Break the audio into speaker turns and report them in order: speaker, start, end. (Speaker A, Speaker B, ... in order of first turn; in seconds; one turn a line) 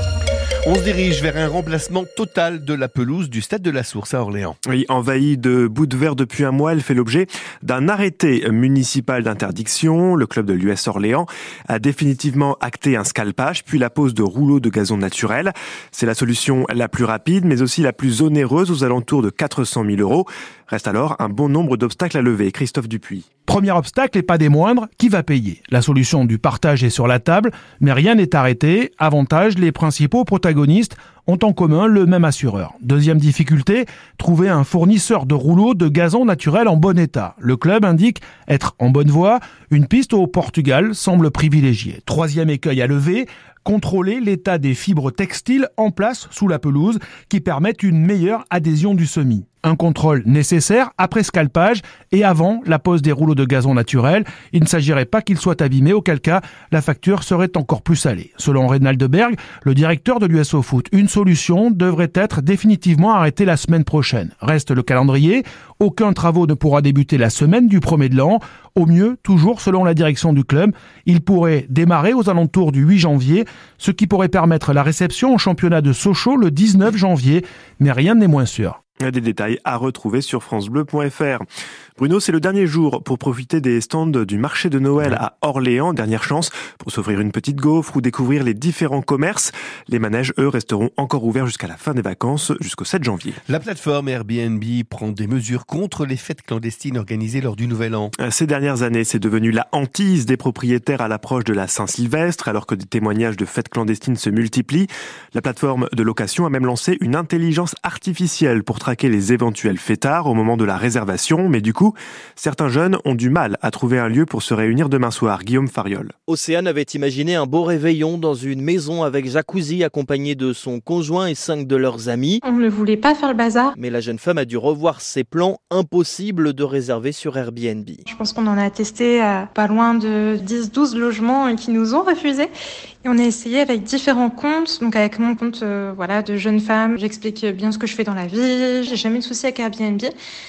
Speaker A: 0.6-4.6
Speaker B: 4.6-23.3
Speaker C: 23.4-78.8
Speaker B: 79.0-81.5
Speaker B: 82.0-93.4
Speaker A: 93.5-98.1
Speaker B: 98.2-116.1
Speaker D: 116.3-122.4
Speaker E: 122.4-123.7
Speaker D: 123.7-128.0
Speaker E: 128.1-132.5
Speaker E: 133.0-140.1